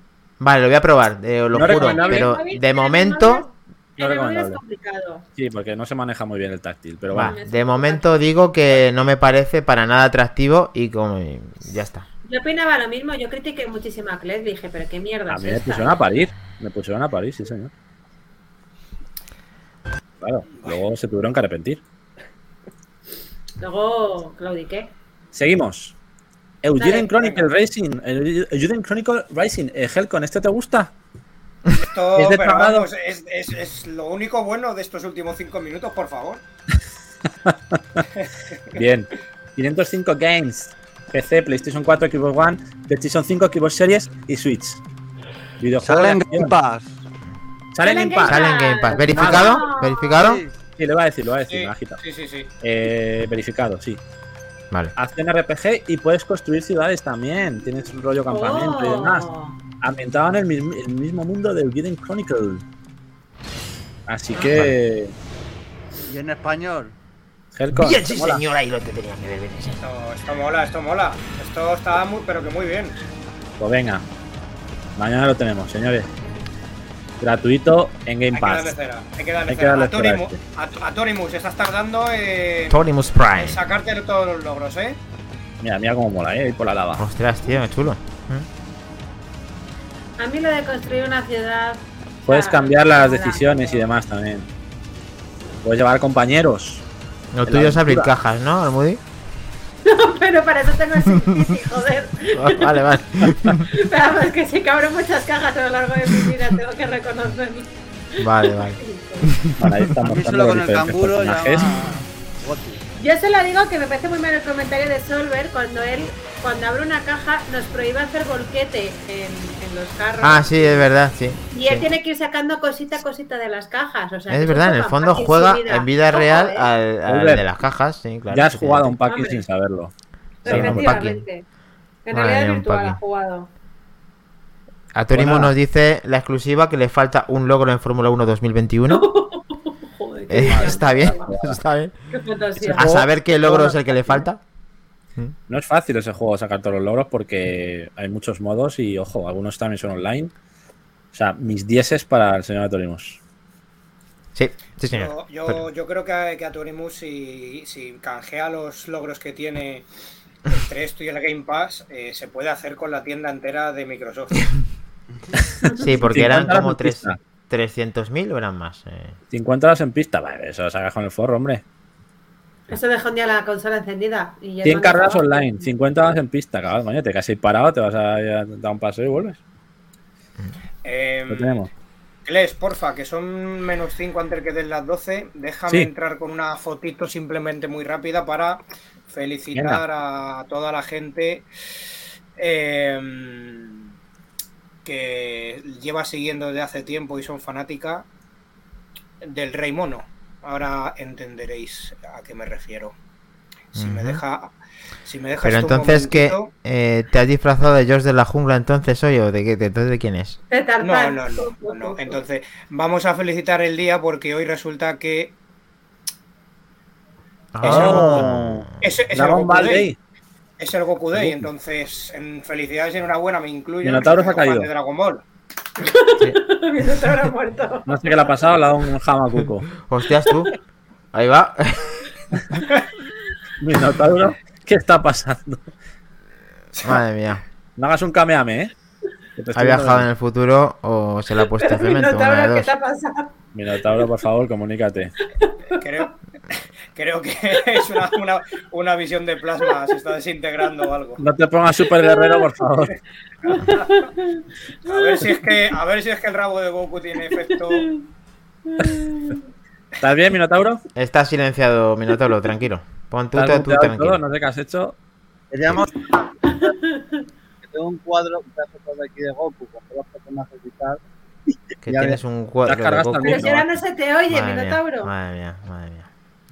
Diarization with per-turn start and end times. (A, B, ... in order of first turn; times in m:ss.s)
0:00.4-0:03.4 A
0:01.5-0:02.4 B
0:01.6-0:05.2 C
0:04.0-0:04.6 B
0:05.3-0:07.3 B
0:07.1-0:12.1 A
0:07.2-0:08.1 C
0:12.2-0:16.0 C
0:15.3-0:17.7 B
0:20.2-0:21.8 B
0:23.6-0:24.9 C
0:25.3-0:26.0 B
0:26.6-0:30.9 B
0:26.8-0:27.4 C
0:31.7-0:36.4 D
0:32.2-0:32.9 B
0:37.4-0:38.0 B
0:38.2-0:38.8 D
0:38.7-0:44.8 B
0:45.6-0:46.5 B
0:45.8-0:47.0 E
0:47.7-0:48.5 B
0:47.8-0:50.2 C
0:48.2-0:50.4 A
0:49.0-0:49.6 B
0:50.1-0:50.5 E
0:50.8-0:52.0 B
0:51.5-0:52.5 D
0:52.6-0:54.0 B
0:55.0-0:59.3 B
0:58.3-0:59.6 C
0:59.8-1:02.6 B
1:04.1-1:05.1 B
1:04.4-1:04.7 A
1:06.0-1:06.9 E
1:07.5-1:08.4 B
1:07.7-1:09.8 A
1:09.7-1:13.0 D
1:13.6-1:14.0 B
1:15.0-1:16.1 B
1:17.2-1:18.8 B
1:18.3-1:22.8 D
1:19.5-1:20.4 B
1:22.7-1:23.6 A
1:23.3-1:25.0 D
1:25.6-1:27.0 B
1:27.0-1:28.5 A
1:30.2-1:33.9 C
1:32.2-1:34.5 B
1:35.6-1:36.8 B
1:37.3-1:39.0 A
1:37.4-1:38.1 B
1:39.8-1:42.8 C
1:42.3-1:43.6 A
1:43.7-1:49.3 C
1:48.2-1:49.9 A
1:49.6-1:51.6 B
1:50.0-1:52.8 E
1:53.0-2:00.8 C
2:00.2-2:01.9 A
2:01.5-2:06.7 C
2:04.3-2:09.0 A
2:07.0-2:07.4 B
2:08.3-2:09.9 B
2:09.0-2:09.4 C
2:10.4-2:11.0 B
2:10.4-2:11.4 C
2:10.4-2:11.2 A
2:12.0-2:13.5 C
2:12.1-2:13.0 A
2:14.9-2:19.1 A
2:15.1-2:15.5 B
2:18.9-2:21.4 C
2:20.3-2:21.9 A
2:20.5-2:21.6 B
2:22.1-2:22.8 C
2:22.6-2:24.4 A
2:22.6-2:24.2 B
2:25.5-2:30.3 B
2:31.1-2:33.2 B
2:34.3-2:35.1 A
2:34.9-2:39.8 D
2:40.5-2:44.5 D
2:45.4-2:47.2 B
2:45.8-2:49.2 A
2:49.3-2:51.6 B
2:52.7-2:55.7 C
2:54.6-2:59.4 B
3:00.8-3:01.6 D
3:01.3-3:01.7 B
3:02.2-3:11.5 D
3:09.5-3:09.8 B
3:12.4-3:13.9 D
3:14.8-3:18.0 D
3:19.2-3:22.9 D
3:23.7-3:24.5 D
3:23.7-3:24.2 A
3:25.0-3:26.5 D
3:25.4-3:30.4 A
3:30.5-3:32.2 C
3:30.8-3:35.3 D
3:37.5-3:38.8 A
3:37.6-3:38.2 D
3:37.6-3:40.0 B
3:38.8-3:39.9 D
3:40.6-3:45.2 D
3:41.2-3:41.4 B
3:43.8-3:44.7 B
3:45.8-3:48.2 C
3:47.9-3:49.7 B
3:49.8-3:50.5 A
3:51.1-3:52.0 A
3:53.6-3:55.7 B
3:56.8-3:57.4 A
3:57.8-3:58.7 B
3:59.4-4:00.1 B
3:59.5-4:02.7 A
4:01.4-4:03.3 C
4:03.5-4:05.1 B
4:05.4-4:05.8 C
4:05.7-4:06.2 D
4:06.9-4:11.2 D
4:11.2-4:12.9 B
4:12.0-4:12.4 C
4:13.5-4:15.6 C
4:13.5-4:14.0 D
4:14.8-4:17.9 D
4:17.3-4:18.0 C
4:18.7-4:19.4 C
4:20.0-4:20.8 B
4:20.9-4:24.2 A
4:23.3-4:25.0 B
4:25.5-4:26.6 E
4:26.5-4:27.2 C
4:27.6-4:31.0 E
4:31.8-4:33.5 A
4:31.8-4:32.2 E
4:32.6-4:33.7 B
4:33.2-4:35.1 C
4:34.3-4:36.1 A